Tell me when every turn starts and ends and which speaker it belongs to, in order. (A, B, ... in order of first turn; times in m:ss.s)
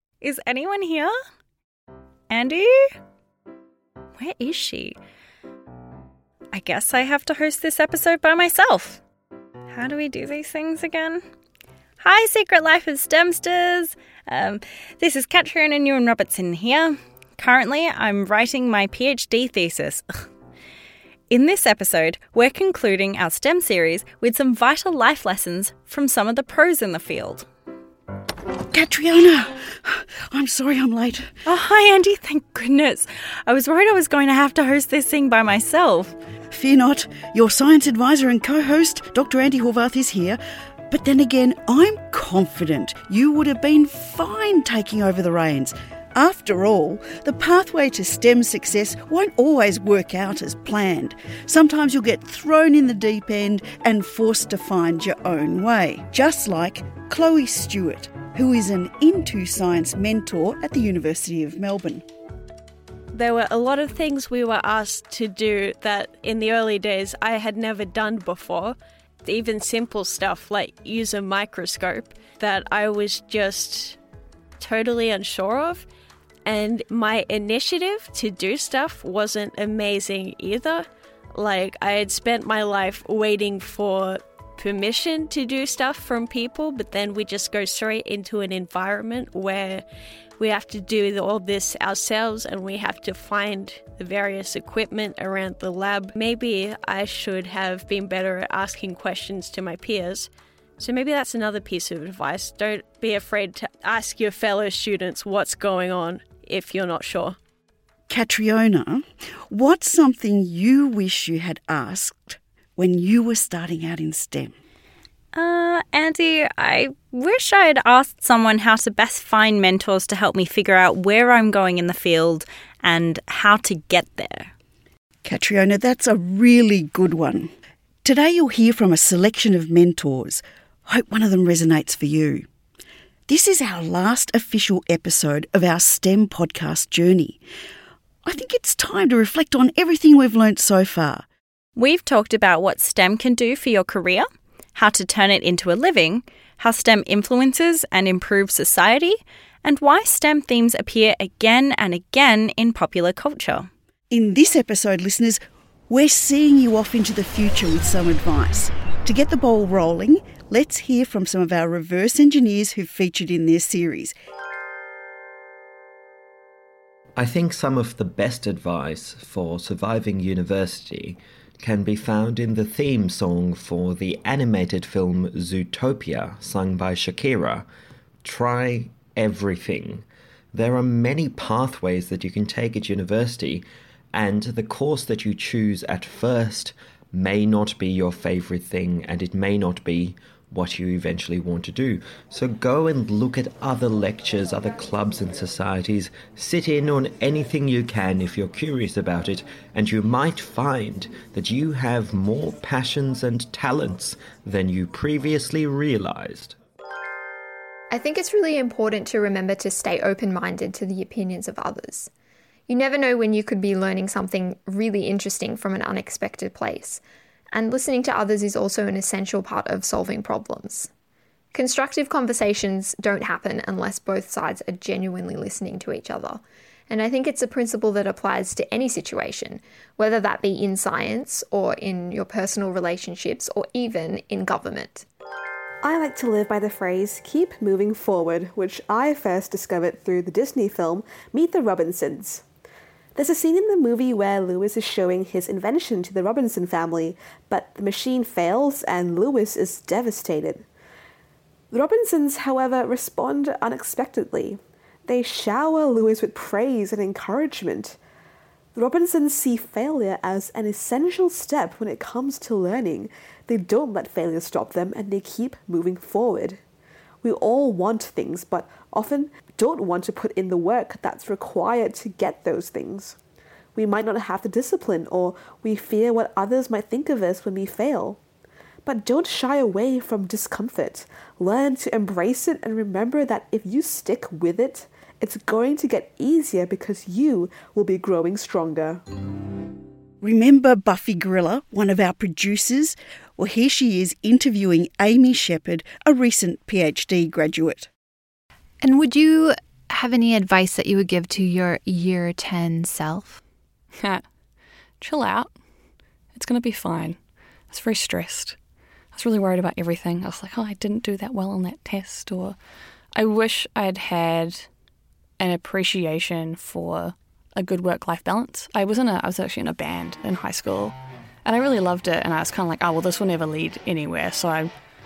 0:00.2-0:01.1 A
0:02.3-0:02.9 A
0:04.2-0:05.0 A
0:06.5-0:09.0 A
0:09.7-0:11.2 A
0:12.0-0:20.0 A
0:21.3-0:27.5 A
0:28.7-0:31.3 B
0:31.4-0:36.2 A
0:36.5-0:40.4 B
0:40.9-1:02.0 B
1:03.1-1:14.0 C
1:14.6-1:15.8 C
1:16.4-1:29.8 C
1:30.4-1:40.3 C
1:40.8-1:47.4 C
1:48.1-1:54.5 B
1:55.3-2:04.5 A
2:05.2-2:07.5 B
2:08.0-2:12.4 B
2:13.3-2:17.4 B
2:18.2-2:21.2 B
2:21.8-2:33.7 A
2:34.1-2:44.1 B
2:47.2-2:57.6 D
2:58.2-3:26.5 D
3:27.9-3:32.1 E
3:32.7-3:37.0 E
3:37.5-3:40.9 E
3:41.5-3:55.0 E
3:55.8-4:02.4 F
4:03.1-4:10.6 F
4:11.7-4:18.0 F
4:18.7-4:26.6 F
4:27.2-4:33.2 F
4:33.7-4:38.2 F
4:38.8-4:49.0 F
4:50.2-4:57.9 B
4:58.8-5:03.4 G
5:04.0-5:04.2 H
5:05.0-5:05.6 H
5:06.3-5:07.2 H
5:07.7-5:08.6 H
5:09.1-5:12.6 H
5:13.1-5:14.7 H
5:15.4-5:24.7 H